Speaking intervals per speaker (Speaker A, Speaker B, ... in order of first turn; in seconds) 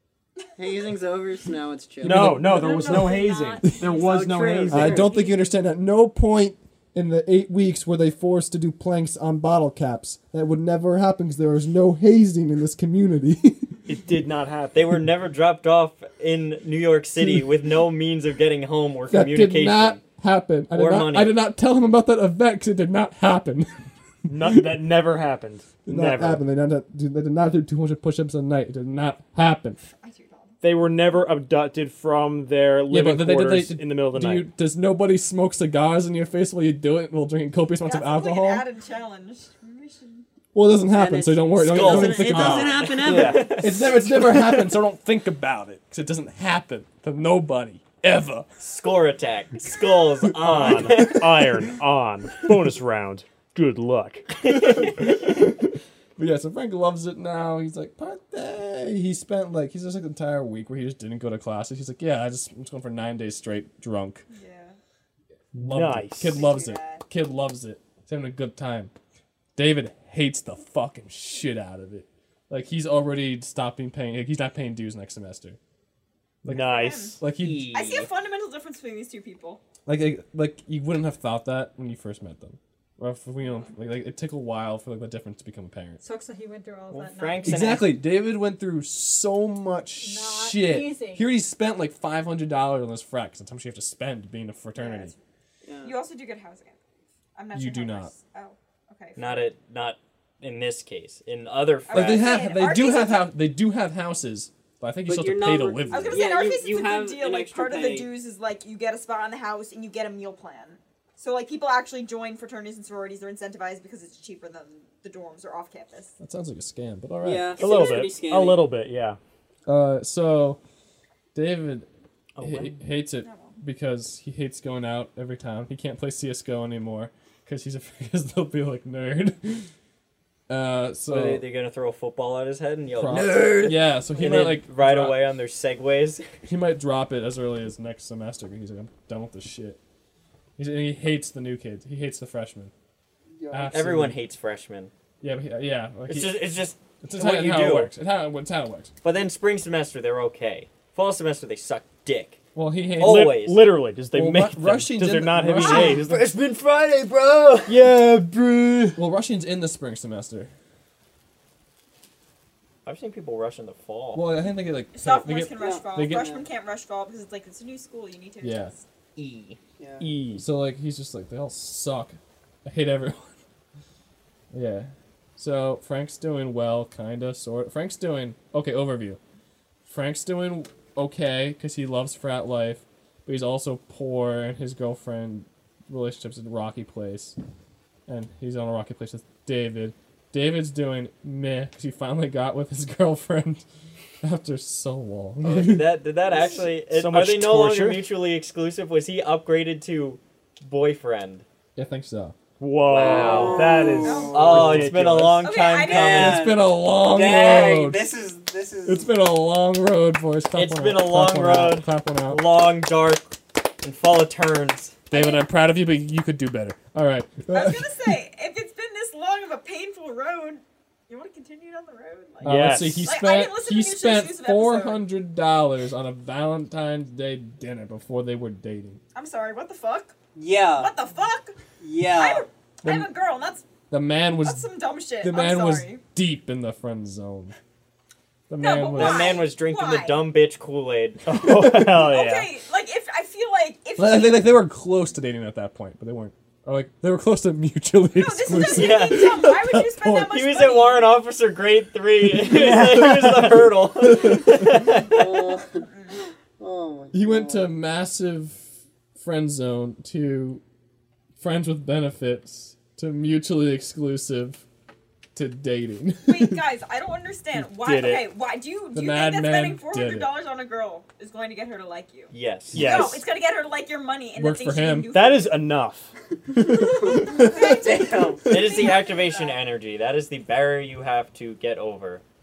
Speaker A: 0.6-2.5, 3.8-5.1, 40.9-43.6, 95.6-96.0, 105.1-108.1, 117.2-118.6, 143.3-144.0, 165.5-166.5, 169.8-170.1, 202.9-205.0, 205.7-209.1, 230.3-230.9, 231.8-232.5, 255.0-255.9, 256.6-257.7, 276.6-278.6
Speaker B: 2.0-3.8, 4.7-13.8, 19.1-23.9, 24.4-24.7, 25.9-29.8, 32.9-38.6, 40.5-42.9, 43.5-48.5, 50.5-51.2, 54.5-64.3, 65.5-68.9, 69.6-75.6, 76.4-77.7, 79.9-86.0, 87.5-95.1, 97.5-98.1, 101.9-106.3, 116.2-118.0, 119.7-120.6, 121.3-121.9, 122.4-129.7, 130.5-131.4, 132.9-135.2, 136.4-139.8, 140.6-142.7, 143.5-144.2, 145.2-146.4, 147.0-148.9, 152.6-153.3, 154.1-156.1, 158.9-160.5, 164.1-166.3, 168.4-168.7, 170.3-173.4, 174.5-179.2, 179.9-187.4, 188.1-193.7, 194.2-196.0, 201.8-202.4, 206.2-208.1, 208.8-212.4, 215.1-218.1, 222.4-229.0, 232.8-233.1, 233.9-234.7, 235.2-237.6, 238.5-239.5, 241.5-242.1, 244.0-250.3, 254.0-254.6, 257.1-260.6, 261.4-264.6, 265.4-266.6, 268.9-270.3, 274.4-275.1, 276.7-277.9
Speaker C: 2.0-5.1, 13.9-15.0, 24.3-26.4, 30.6-34.5, 43.0-43.5, 50.4-54.3, 65.5-66.4, 76.5-77.2, 117.6-119.2, 153.0-156.2, 157.7-159.0, 170.0-170.5, 196.9-198.1, 202.6-205.4, 222.4-223.1, 241.3-242.5, 252.3-253.7, 267.7-268.3, 272.7-273.2, 275.1-276.1
Speaker D: 2.4-4.1, 5.0-5.3, 86.0-87.8, 90.0-91.3
Speaker E: 14.7-20.0, 20.7-21.4, 41.6-44.7, 48.6-51.3, 54.4-55.1, 77.3-78.1, 86.9-88.0, 99.2-102.4, 122.4-122.8, 131.1-136.2, 143.7-144.9, 146.1-147.9, 149.0-152.4, 153.0-153.6, 155.5-157.8, 162.8-164.3, 169.2-169.6, 195.4-201.5, 202.9-206.5, 210.5-215.0, 238.9-241.3, 248.6-249.6, 250.1-255.6, 272.3-273.1, 278.5-282.2
Speaker F: 29.9-30.6, 37.8-40.2, 64.3-64.8, 66.3-67.0, 76.6-77.2, 77.7-79.6, 94.8-95.2, 95.8-96.8, 97.3-99.5, 101.9-103.3, 105.9-116.2, 123.2-123.5, 164.9-168.8, 204.0-204.7, 205.4-206.4, 215.1-215.4, 217.5-225.1, 229.1-230.2, 230.8-231.6, 232.1-233.7, 234.4-236.0, 238.6-240.3, 241.9-244.6, 248.2-251.1, 255.9-256.1, 266.3-275.6, 277.1-279.6